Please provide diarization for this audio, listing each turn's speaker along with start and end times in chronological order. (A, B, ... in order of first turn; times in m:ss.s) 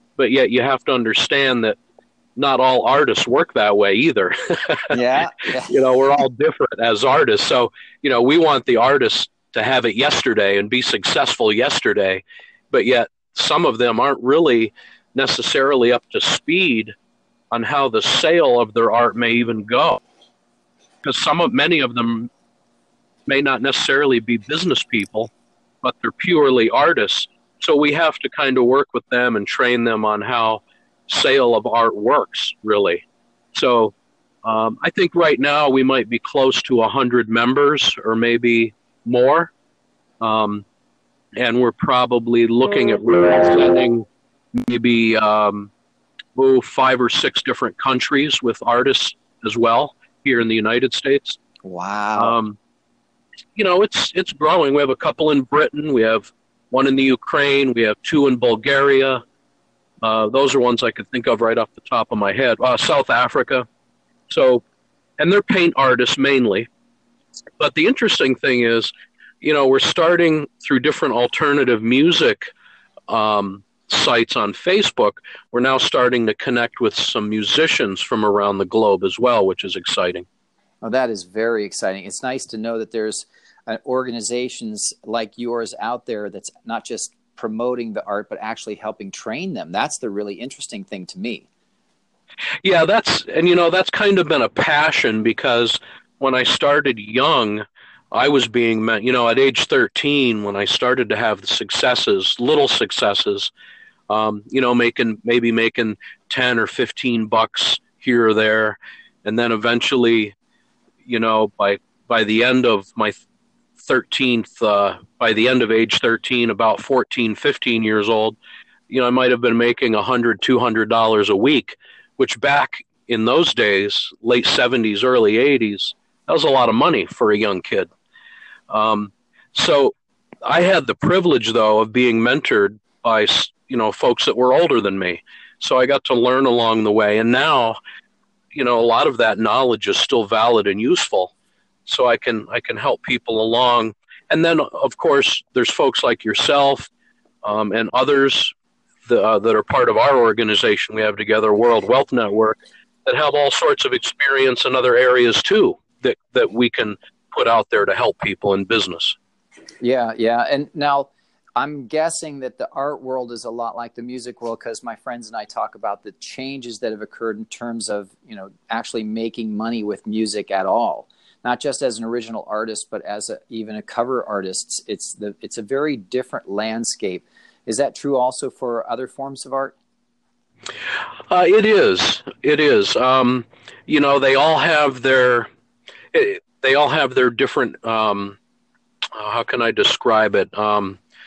0:00.2-0:01.8 A
0:02.4-0:05.0 A
0:04.9-0:05.8 B
0:05.7-0:16.9 A
0:17.5-0:20.0 A
0:21.0-0:22.3 A
0:23.2-0:25.3 A
0:25.8-0:39.5 A
0:40.2-0:40.6 A
0:41.4-0:45.7 A
0:46.3-0:51.4 A
0:51.6-0:52.4 B
0:52.2-0:52.6 A
0:53.5-0:59.2 A
1:00.0-1:03.6 A
1:04.3-1:04.6 A
1:05.2-1:06.7 A
1:07.6-1:12.4 A
1:13.1-1:20.2 A
1:20.8-1:31.5 B
1:32.6-1:43.5 A
1:44.1-1:50.3 A
1:51.0-1:53.2 A
1:53.8-1:58.4 A
1:58.9-2:07.9 A
2:08.7-2:17.8 A
2:18.5-2:21.3 A
2:21.8-2:26.9 A
2:27.4-2:28.5 A
2:29.0-2:39.2 A
2:39.8-2:59.7 B
3:01.3-3:05.5 A
3:06.1-3:08.4 A
3:09.1-3:11.0 A